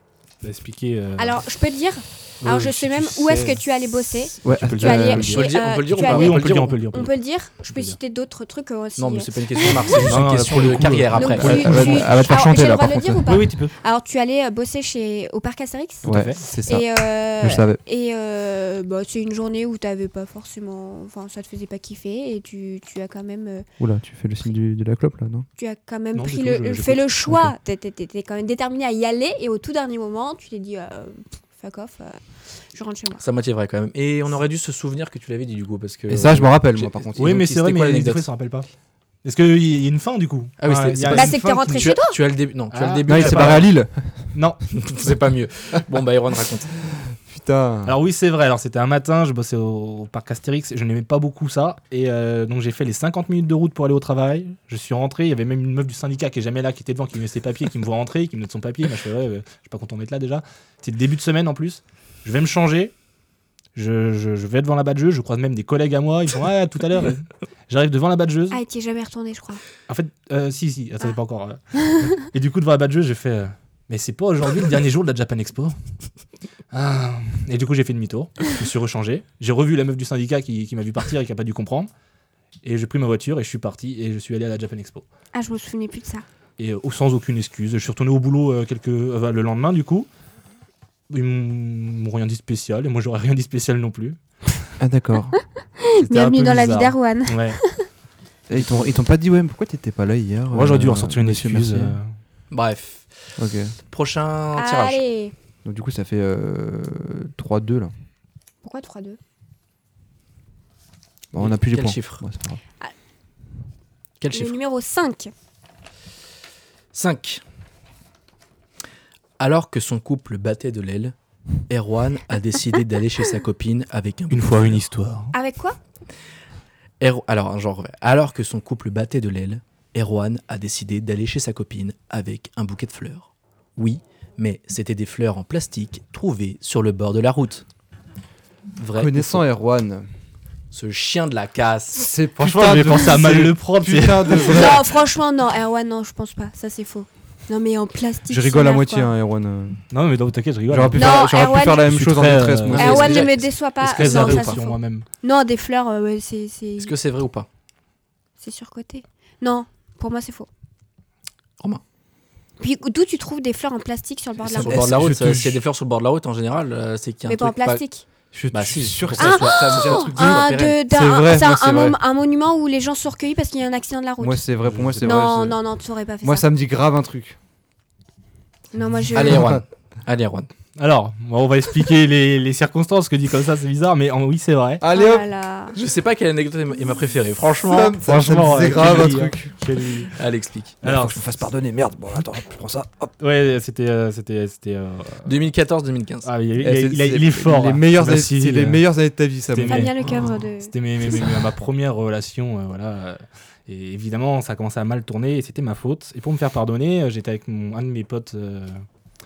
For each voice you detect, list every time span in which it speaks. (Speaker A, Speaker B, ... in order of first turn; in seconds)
Speaker A: 0.4-1.4, 2.4-3.6, 4.3-7.1, 7.7-8.0, 9.8-12.2, 13.2-13.7, 16.1-16.4, 26.1-27.5, 37.2-38.7, 39.2-42.0, 42.7-43.7, 44.3-44.6, 47.9-62.9, 63.7-68.6, 69.9-75.7, 76.7-81.9, 82.6-85.0, 86.6-90.1, 91.1-94.2, 96.0-97.6, 98.5-98.9, 100.5-102.1, 124.3-125.3, 142.4-144.8, 149.9-155.1, 168.5-169.3, 174.6-175.1, 180.8-184.8, 187.9-190.1, 190.8-191.2, 193.2-195.3, 196.2-198.8, 199.5-208.8
Speaker B: 1.2-10.2, 11.1-23.7, 25.6-33.2, 41.1-42.2, 68.5-69.6, 85.3-86.2, 95.8-97.8, 104.6-105.3, 108.6-109.2, 114.3-115.3, 125.3-125.8, 144.3-149.1, 150.9-151.8, 152.8-156.9, 158.4-160.5, 162.6-164.8, 167.2-168.1, 169.2-174.4, 175.0-176.4, 178.7-179.5, 184.9-185.7, 199.6-201.2
Speaker C: 4.4-5.4, 11.4-13.4, 16.0-17.8, 23.8-25.5, 36.1-37.4, 43.0-44.3, 46.9-48.0, 94.8-95.4, 98.5-102.0, 103.4-103.7, 105.6-107.9, 111.3-112.6, 138.9-140.1, 142.0-144.8, 148.3-149.8, 150.7-153.3, 164.6-165.6, 168.3-172.0, 174.2-175.6, 176.2-177.4, 179.2-179.6, 184.8-185.3, 187.7-189.5, 190.8-193.1, 196.6-199.9
Speaker D: 5.2-6.8, 9.0-12.1, 33.2-38.2, 40.6-43.6, 44.7-46.7, 102.5-103.3, 103.9-105.0, 111.4-112.2, 114.2-114.5, 116.9-117.4, 119.4-121.1, 121.7-124.8, 127.0-137.6, 138.8-139.4, 140.7-142.1, 152.7-153.4, 154.0-154.5, 156.8-157.5, 164.4-167.8, 168.7-170.8, 179.1-180.5, 185.7-188.0, 190.1-190.8, 195.2-196.3, 200.0-200.3